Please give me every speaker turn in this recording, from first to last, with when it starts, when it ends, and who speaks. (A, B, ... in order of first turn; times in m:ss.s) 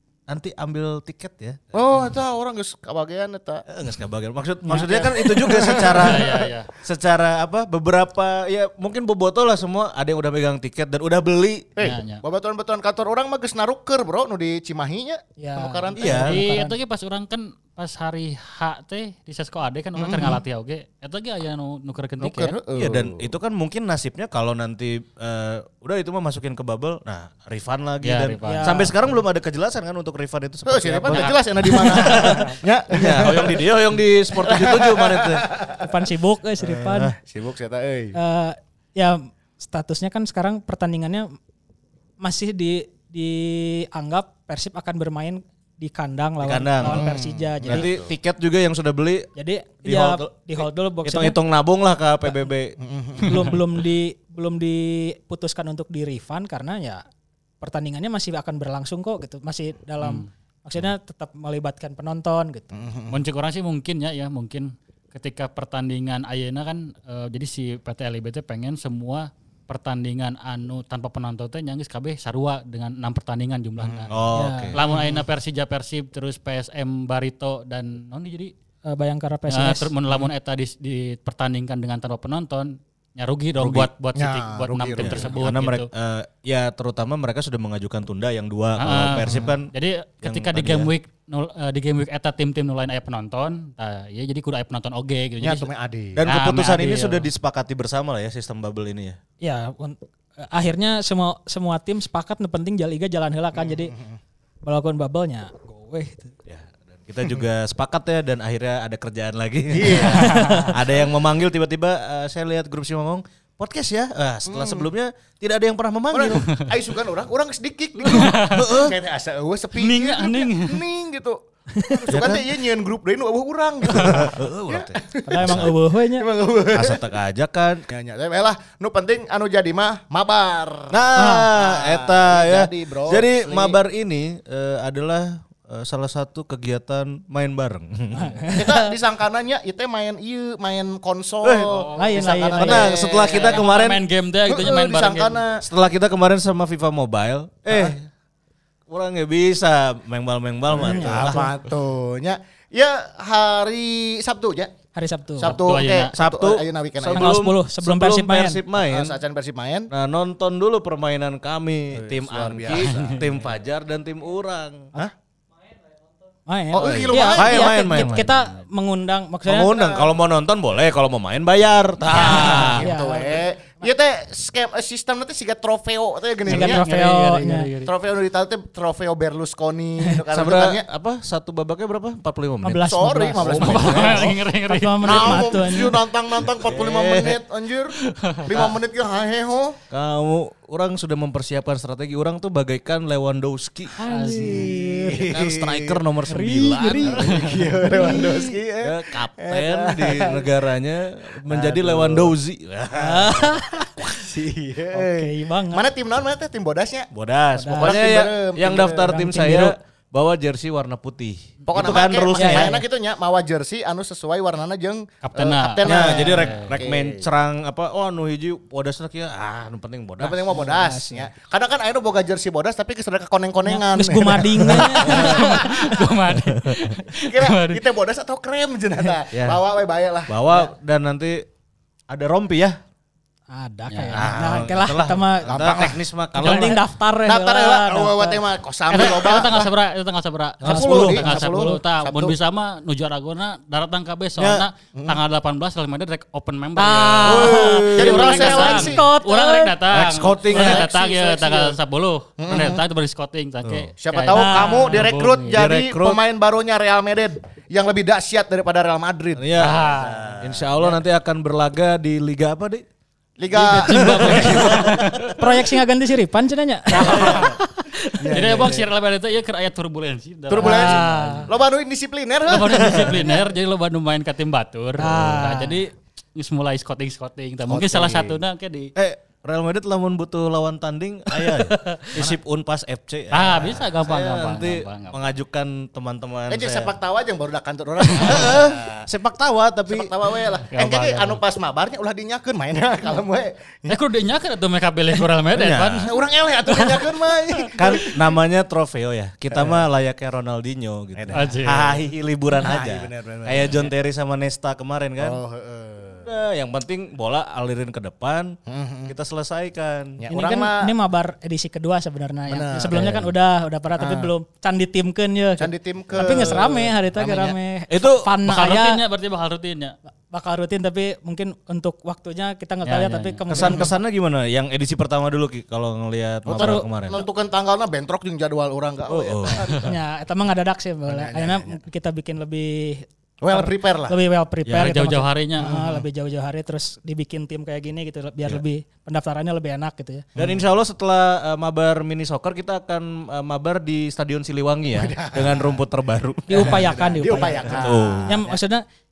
0:00.3-0:01.6 A
0:01.7-0:03.6 B
0:03.7-0:11.8 A
0:04.7-0:05.0 C
0:04.8-0:06.4 B
0:05.7-0:06.7 D
0:11.8-0:16.3 B
0:11.8-0:12.2 D
0:15.4-0:16.8 C
0:16.0-0:16.4 A
0:16.2-0:22.6 D
0:20.0-0:20.4 B
0:22.2-0:23.3 B
0:22.7-0:35.5 A
0:28.0-0:28.9 D
0:28.4-0:28.9 C
0:30.7-0:33.7 B
0:31.1-0:32.3 D
0:32.1-0:32.4 C
0:34.3-0:35.8 B
0:35.8-0:37.2 C
0:36.6-0:37.2 A
0:37.2-0:38.2 B
0:38.1-0:41.3 C
0:42.2-0:47.9 C
0:46.4-0:47.1 A
0:46.8-0:48.1 B
0:47.6-0:49.3 A
0:49.4-0:51.4 C
0:49.8-0:52.8 A
0:52.8-0:53.5 B
0:53.2-0:57.0 C
0:57.6-1:02.7 C
1:00.0-1:00.3 D
1:02.7-1:03.2 B
1:03.1-1:14.2 D
1:13.8-1:14.1 B
1:14.1-1:14.8 A
1:14.3-1:14.8 C
1:14.7-1:18.5 D
1:14.8-1:15.2 B
1:18.9-1:19.9 C
1:19.5-1:25.9 D
1:23.6-1:23.9 A
1:24.2-1:25.4 B
1:25.0-1:29.7 A
1:28.8-1:35.7 D
1:29.2-1:29.5 B
1:30.2-1:30.9 A
1:35.4-1:36.2 B
1:36.2-1:39.2 A
1:36.3-1:37.3 D
1:39.4-1:43.9 C
1:43.6-1:44.2 B
1:44.6-1:46.3 C
1:46.5-1:56.6 A
1:49.7-1:50.6 B
1:50.1-1:50.7 C
1:54.5-1:54.9 B
1:56.1-2:07.0 B
1:58.0-1:58.7 D
1:58.1-1:59.0 A
1:59.8-2:00.8 D
2:01.8-2:02.0 C
2:02.1-2:02.5 A
2:03.9-2:05.7 A
2:05.3-2:06.3 C
2:06.7-2:07.8 A
2:07.9-2:13.8 B
2:10.9-2:18.5 A
2:11.2-2:11.5 C
2:18.1-2:18.9 C
2:18.5-2:23.6 B
2:21.4-2:21.8 A
2:21.7-2:22.2 D
2:22.0-2:22.9 C
2:22.5-2:24.0 A
2:23.2-2:25.4 D
2:24.4-2:25.6 B
2:25.6-2:28.1 A
2:27.7-2:28.0 B
2:28.9-2:31.5 A
2:30.7-2:31.5 C
2:30.8-2:34.7 B
2:34.9-2:35.6 C
2:35.4-2:37.4 B
2:35.4-2:36.1 D
2:36.1-2:39.2 A
2:37.1-2:38.6 C
2:38.8-2:39.9 B
2:39.9-2:44.9 A
2:41.9-2:43.3 B
2:42.7-2:43.2 D
2:46.5-2:49.8 C
2:46.7-2:47.8 B
2:46.8-2:48.3 A
2:49.5-2:52.9 A
2:49.7-2:50.1 B
2:52.1-2:53.5 C
2:52.2-2:56.8 B
2:56.5-2:57.9 D
2:56.5-2:57.7 C
2:57.8-3:00.8 B
3:00.3-3:04.2 A
3:02.6-3:06.0 C
3:02.8-3:04.4 B
3:03.4-3:05.8 D
3:05.0-3:09.8 B
3:06.6-3:07.4 A
3:08.0-3:08.7 D
3:08.5-3:08.8 A
3:09.9-3:14.0 A
3:14.0-3:14.8 C
3:14.0-3:14.7 D
3:14.3-3:16.0 B
3:14.7-3:24.1 A
3:16.3-3:18.4 C
3:17.0-3:20.5 B
3:21.5-3:22.4 B
3:23.0-3:23.9 C
3:24.0-3:27.1 B
3:24.9-3:25.8 C
3:27.1-3:32.8 A
3:27.6-3:28.0 C
3:27.8-3:29.2 B
3:29.0-3:29.8 C
3:31.7-3:37.3 B
3:32.3-3:32.8 C
3:35.2-3:36.8 D
3:35.8-3:40.6 A
3:40.2-3:46.1 B
3:40.5-3:41.3 C
3:43.7-3:45.7 C
3:45.0-3:45.3 A
3:45.0-3:47.8 D
3:46.4-3:46.9 A
3:47.1-3:50.6 B
3:49.3-3:49.6 A
3:50.3-3:51.5 A
3:52.1-3:52.8 A
3:53.5-3:55.8 C
3:53.9-3:54.3 D
3:54.1-3:56.8 A
3:55.4-3:56.0 B
3:56.4-3:58.4 C
3:56.4-3:56.8 D
3:57.2-3:59.7 B
3:58.9-4:15.6 D
4:00.6-4:01.8 C
4:00.6-4:02.4 B
4:00.6-4:01.2 A
4:04.4-4:04.7 A
4:06.8-4:09.8 C
4:07.2-4:08.8 A
4:07.3-4:09.0 B
4:09.9-4:10.9 A
4:10.5-4:11.8 B
4:12.4-4:12.8 B
4:13.6-4:13.9 A
4:14.0-4:21.0 B
4:14.3-4:15.0 C
4:15.5-4:16.2 A
4:19.4-4:22.8 A
4:19.6-4:20.2 D
4:23.4-4:25.2 B
4:23.6-4:25.3 D
4:23.6-4:24.8 C
4:23.8-4:25.3 A
4:25.4-4:28.2 C
4:27.0-4:27.6 D
4:27.0-4:27.5 B
4:28.2-4:28.9 B
4:28.3-4:31.5 D
4:30.5-4:33.4 B
4:30.6-4:31.5 C
4:32.5-4:38.9 D
4:35.0-4:35.8 C
4:37.7-4:38.4 B
4:39.0-4:47.0 A
4:41.7-4:42.1 D
4:43.3-4:45.2 D
4:46.5-4:49.0 B
4:48.2-4:50.1 A
4:49.9-4:54.0 B
4:50.7-4:51.4 D
4:53.9-4:56.2 D
4:55.5-4:56.1 A
4:56.0-4:58.3 B
4:57.8-5:05.4 A
4:59.5-4:59.8 B
5:01.2-5:01.5 B
5:01.3-5:02.0 D
5:02.5-5:03.9 B
5:05.2-5:06.3 B
5:06.2-5:10.2 A
5:08.7-5:09.1 B
5:10.2-5:10.9 B
5:10.3-5:19.0 C
5:12.5-5:13.3 B
5:14.0-5:14.3 B
5:15.6-5:17.6 B
5:17.9-5:18.4 A
5:18.4-5:20.0 D
5:20.3-5:24.0 C
5:22.8-5:23.4 D
5:23.5-5:27.2 A
5:26.5-5:30.0 B
5:26.5-5:26.9 C
5:29.1-5:29.7 A
5:29.7-5:40.2 C
5:31.1-5:31.8 B
5:33.4-5:34.2 B
5:34.7-5:35.8 D
5:35.6-5:36.0 B
5:40.4-5:40.6 B
5:40.4-5:47.0 A
5:44.9-5:45.8 B
5:46.5-5:48.8 C
5:46.6-5:48.6 B
5:47.7-5:48.4 A